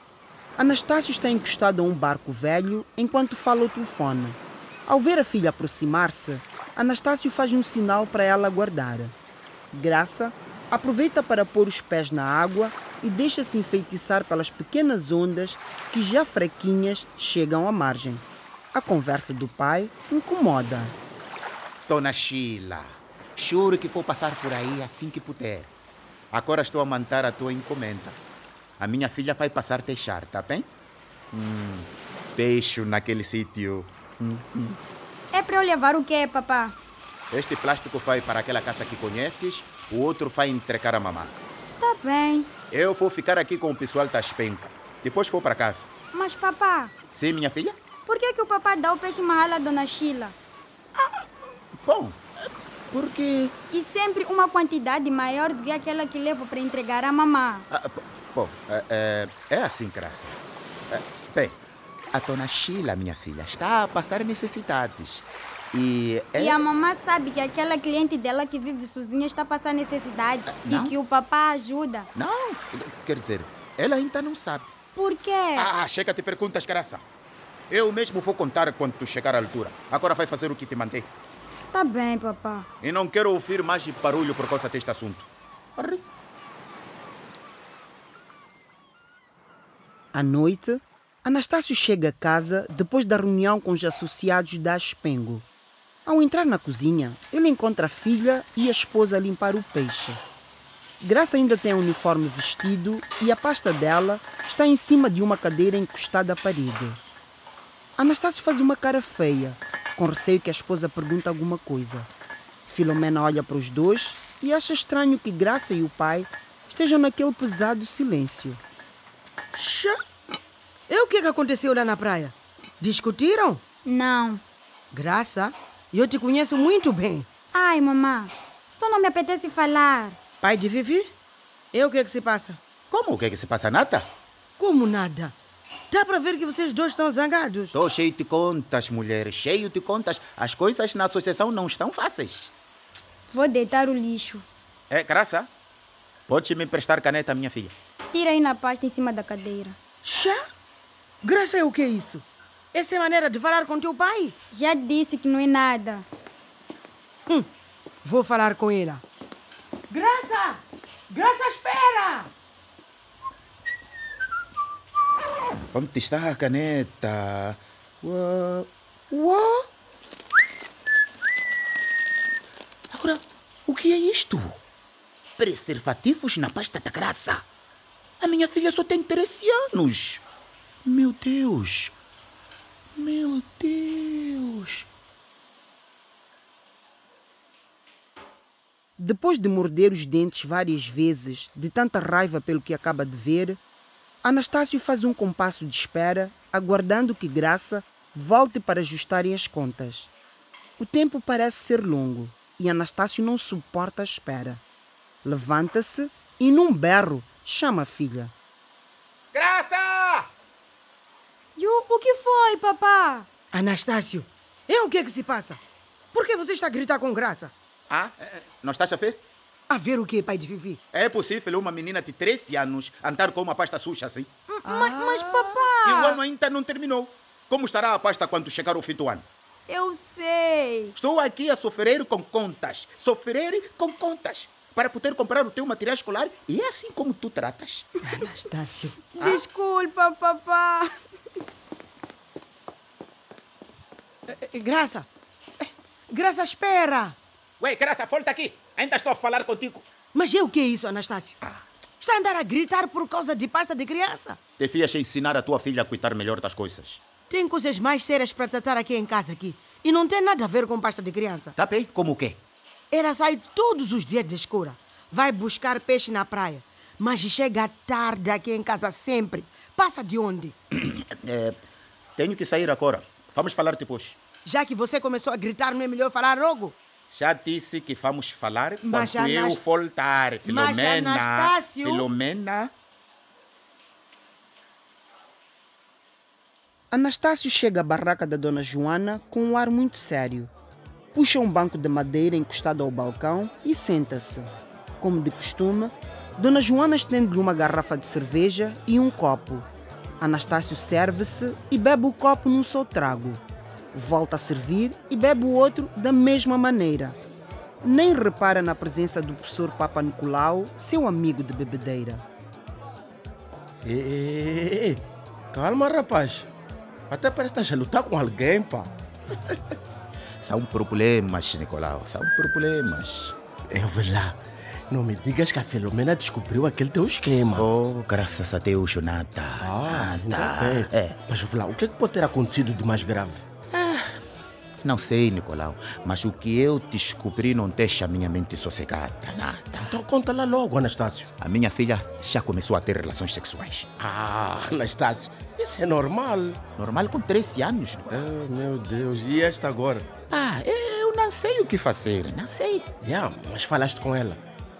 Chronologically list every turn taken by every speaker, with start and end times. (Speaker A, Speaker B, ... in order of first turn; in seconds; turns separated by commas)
Speaker A: 0.6-9.2, Speaker A: 9.7-20.9, Speaker B: 21.9-25.7, Speaker B: 26.3-28.2, Speaker B: 28.8-30.7, Speaker B: 31.3-34.8, Speaker C: 35.3-36.8, Speaker B: 37.3-41.3, Speaker C: 41.6-42.5, Speaker B: 42.7-45.9, Speaker C: 46.1-46.9, Speaker B: 47.1-47.8, Speaker C: 48.1-50.4, Speaker B: 50.9-51.3, Speaker B: 51.8-52.2, Speaker B: 52.9-53.5, Speaker C: 53.7-57.7, Speaker B: 57.7-61.6, Speaker B: 62.1-66.6, Speaker C: 66.4-72.1, Speaker B: 70.5-70.9, Speaker B: 72.2-74.7, Speaker C: 74.9-75.7, Speaker B: 75.6-77.0, Speaker B: 77.7-81.1, Speaker C: 81.5-82.7, Speaker B: 82.8-86.0, Speaker A: 90.1-95.5, Speaker A: 96.1-100.2, Speaker A: 101.0-107.0, Speaker A: 108.0-112.1, Speaker A: 112.7-118.6, Speaker D: 119.5-120.0, Speaker D: 120.9-123.6, Speaker C: 123.8-124.4, Speaker D: 124.9-127.3, Speaker C: 127.5-130.2, Speaker D: 130.4-131.1, Speaker D: 131.7-132.6, Speaker B: 132.9-134.1, Speaker D: 134.6-135.3, Speaker D: 135.9-137.8, Speaker B: 137.7-142.5, Speaker C: 143.3-144.4, Speaker B: 144.9-145.5, Speaker B: 146.3-147.7, Speaker C: 148.1-149.8, Speaker D: 150.0-150.4, Speaker D: 151.2-154.3, Speaker C: 154.5-156.1, Speaker D: 158.0-159.0, Speaker D: 159.9-162.3, Speaker B: 165.7-169.7, Speaker B: 172.9-174.6, Speaker B: 175.4-177.4, Speaker B: 178.2-180.2, Speaker B: 180.9-181.9, Speaker B: 183.0-184.9, Speaker A: 189.0-193.6, Speaker A: 194.2-200.1, Speaker A: 200.8-204.6, Speaker A: 205.2-208.3, Speaker B: 209.3-210.3, Speaker C: 211.6-213.3, Speaker D: 213.5-215.6, Speaker D: 216.1-217.5, Speaker B: 217.9-219.2, Speaker D: 219.7-220.8, Speaker B: 220.9-224.3, Speaker C: 224.5-226.2, Speaker D: 224.7-225.5, Speaker B: 225.8-229.2, Speaker C: 229.7-230.9, Speaker B: 230.9-237.9, Speaker D: 238.1-239.0, Speaker B: 239.2-239.4, Speaker C: 239.2-240.9, Speaker D: 244.3-245.1, Speaker D: 245.6-247.2, Speaker B: 247.6-249.9, Speaker D: 250.1-251.4, Speaker D: 252.0-254.4, Speaker B: 254.6-257.0, Speaker D: 257.3-261.5, Speaker B: 261.6-262.4, Speaker D: 262.9-270.6, Speaker B: 270.7-271.6, Speaker B: 272.2-274.2, Speaker D: 274.4-276.8, Speaker B: 277.1-282.7, Speaker D: 278.9-279.6, Speaker D: 280.4-282.1, Speaker A: 286.9-290.5, Speaker A: 291.1-294.5, Speaker A: 295.0-299.7, Speaker A: 300.2-303.4, Speaker A: 303.9-307.2, Speaker A: 307.8-312.2, Speaker E: 313.8-316.5, Speaker E: 317.1-318.9, Speaker B: 320.4-323.4, Speaker E: 323.7-324.4, Speaker E: 324.9-327.7, Speaker B: 327.6-331.1, Speaker E: 329.6-333.4, Speaker B: 333.7-334.2, Speaker B: 334.8-340.0, Speaker E: 339.8-341.3, Speaker B: 341.4-343.9, Speaker E: 344.0-346.6, Speaker B: 346.8-348.2, Speaker E: 348.1-350.1, Speaker B: 350.3-352.9, Speaker E: 353.0-354.4